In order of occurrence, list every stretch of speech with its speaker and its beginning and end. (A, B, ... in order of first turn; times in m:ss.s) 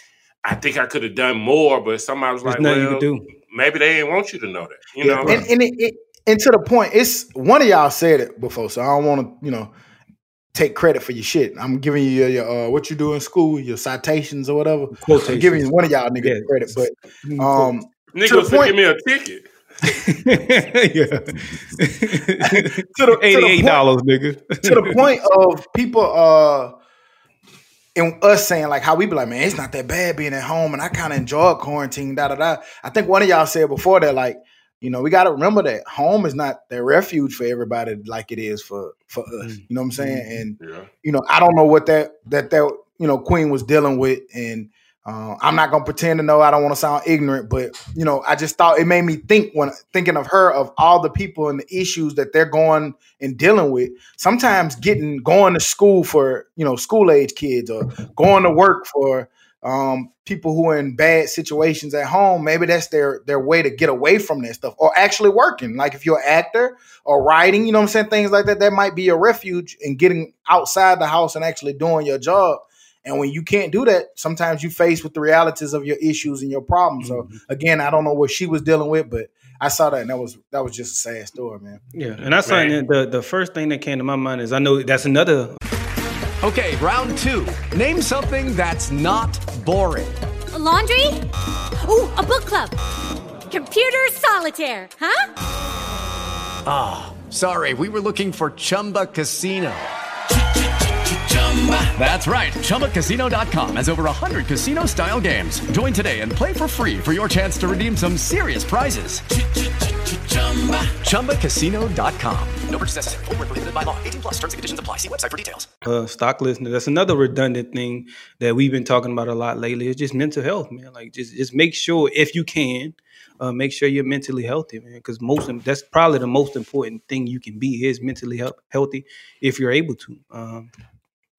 0:00.4-0:05.4 A
0:02.4-0:03.3 B
0:05.0-0:09.7 C
0:05.1-0:05.4 B
0:10.5-0:18.7 C
0:15.0-0:15.7 B
0:16.2-0:16.5 B
0:17.2-0:17.7 B
0:18.1-0:19.4 A
0:19.9-0:25.0 B
0:22.5-0:23.9 C
0:24.6-0:26.8 C
0:28.0-1:21.8 C
0:39.4-0:40.4 B
0:40.6-0:40.9 A
1:17.0-1:17.4 B
1:22.0-1:25.6 B
1:22.5-1:22.8 A
1:26.4-1:30.1 D
1:30.6-1:31.1 E
1:31.8-1:32.7 E
1:33.5-1:35.2 E
1:36.7-1:39.8 D
1:41.3-1:49.2 D
1:50.1-1:55.7 D
1:55.8-2:10.7 B